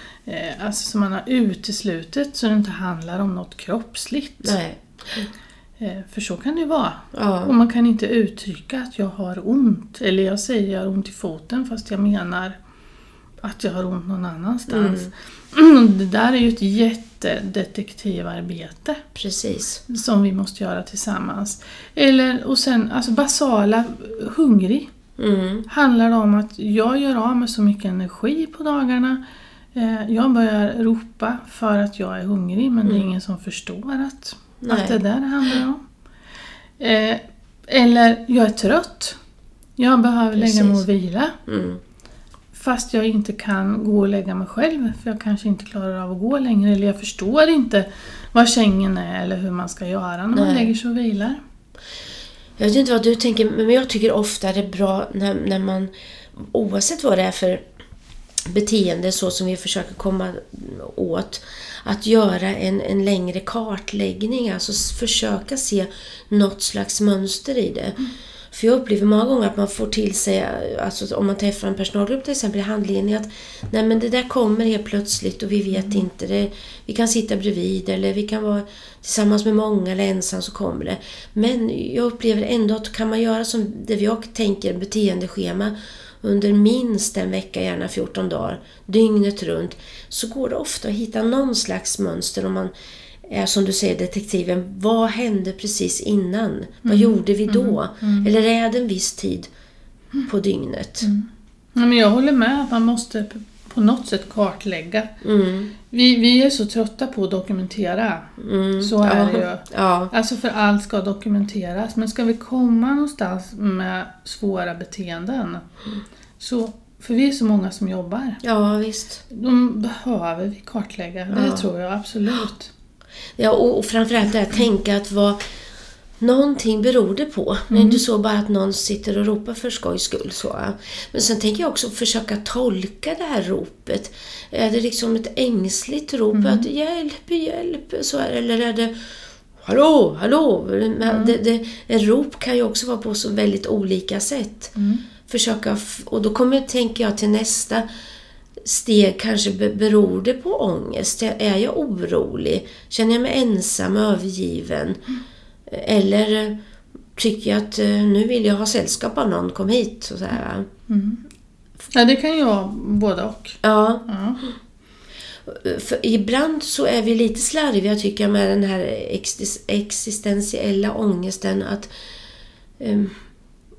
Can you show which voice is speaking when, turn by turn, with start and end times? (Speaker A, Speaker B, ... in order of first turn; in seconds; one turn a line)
Speaker A: 0.3-4.6
Speaker B: 4.4-5.3
Speaker A: 5.8-12.6
Speaker B: 7.1-7.5
Speaker A: 13.4-19.0
Speaker B: 14.7-15.1
Speaker B: 19.1-19.8
Speaker A: 19.9-24.9
Speaker B: 25.2-25.7
Speaker A: 25.7-29.2
Speaker A: 29.8-35.8
Speaker B: 34.6-35.0
Speaker A: 36.8-39.2
Speaker A: 39.8-41.4
Speaker B: 40.4-40.8
Speaker B: 41.5-41.8
Speaker A: 42.5-51.4
Speaker B: 50.3-50.7
Speaker B: 52.6-57.6
Speaker B: 58.5-68.0
Speaker B: 68.5-92.7
Speaker A: 75.7-76.0
Speaker B: 93.3-99.5
Speaker A: 96.8-98.3
Speaker B: 100.3-101.1
Speaker A: 101.0-105.1
Speaker B: 105.2-105.7
Speaker A: 105.9-115.7
Speaker B: 108.4-110.1
Speaker A: 116.4-118.4
Speaker B: 118.4-119.2
Speaker A: 119.3-122.7
Speaker B: 121.3-121.7
Speaker B: 123.4-125.4
Speaker B: 126.2-144.7
Speaker A: 127.7-128.0
Speaker A: 136.3-136.7
Speaker A: 141.0-141.3
Speaker A: 144.8-145.0
Speaker B: 145.3-147.8
Speaker B: 148.6-155.0
Speaker B: 155.7-156.6
Speaker B: 157.2-160.7
Speaker A: 160.9-161.2
Speaker A: 161.9-164.4
Speaker B: 163.6-164.5
Speaker B: 165.4-171.9
Speaker B: 172.8-173.2